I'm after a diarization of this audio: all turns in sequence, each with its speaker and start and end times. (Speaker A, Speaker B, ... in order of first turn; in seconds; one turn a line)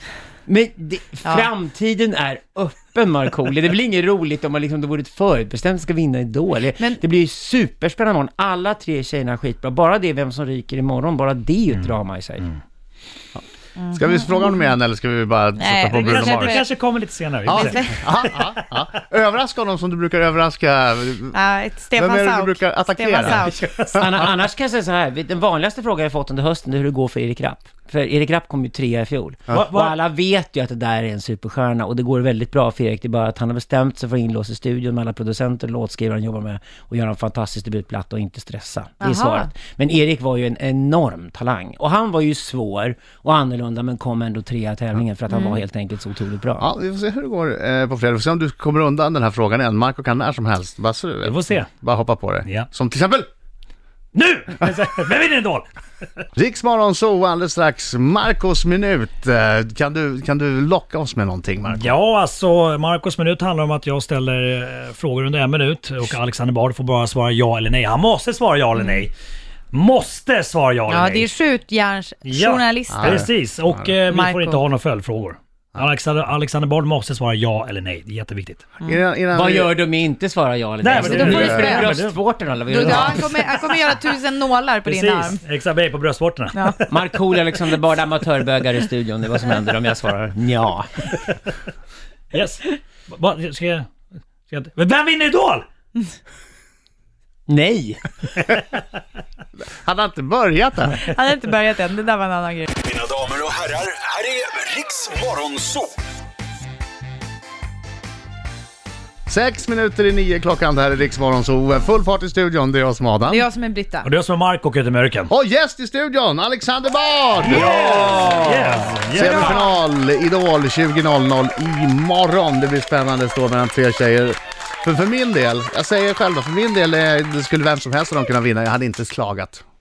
Speaker A: 0.5-12.5
Speaker B: 13.8-14.7
Speaker C: 13.9-16.6
Speaker B: 15.6-16.7
Speaker D: 15.9-18.6
Speaker C: 17.5-21.4
Speaker B: 17.5-18.0
Speaker B: 21.3-23.7
Speaker C: 21.9-24.2
Speaker A: 23.9-46.7
Speaker D: 29.5-29.9
Speaker B: 39.0-39.5
Speaker B: 45.3-45.6
Speaker C: 46.6-53.3
Speaker D: 51.2-51.7
Speaker D: 54.1-55.7
Speaker C: 56.3-61.9
Speaker D: 61.7-69.1
Speaker B: 68.8-69.0
Speaker D: 69.7-71.3
Speaker B: 70.9-73.2
Speaker D: 72.2-78.7
Speaker C: 72.9-73.3
Speaker B: 74.1-74.6
Speaker C: 78.8-79.8
Speaker A: 79.3-83.4
Speaker D: 80.8-82.2
Speaker B: 81.1-81.9
Speaker B: 82.7-85.4
Speaker D: 84.8-86.7
Speaker B: 86.5-86.8
Speaker A: 86.8-91.0
Speaker D: 92.3-93.9
Speaker D: 94.5-95.7
Speaker A: 97.5-98.0
Speaker C: 99.7-101.0
Speaker B: 101.0-102.8
Speaker E: 103.0-105.9
Speaker C: 109.3-113.4
Speaker B: 113.3-114.1
Speaker D: 114.0-115.3
Speaker C: 115.3-117.7
Speaker D: 117.4-119.6
Speaker A: 117.5-119.0
Speaker C: 119.1-129.6
Speaker B: 119.2-119.6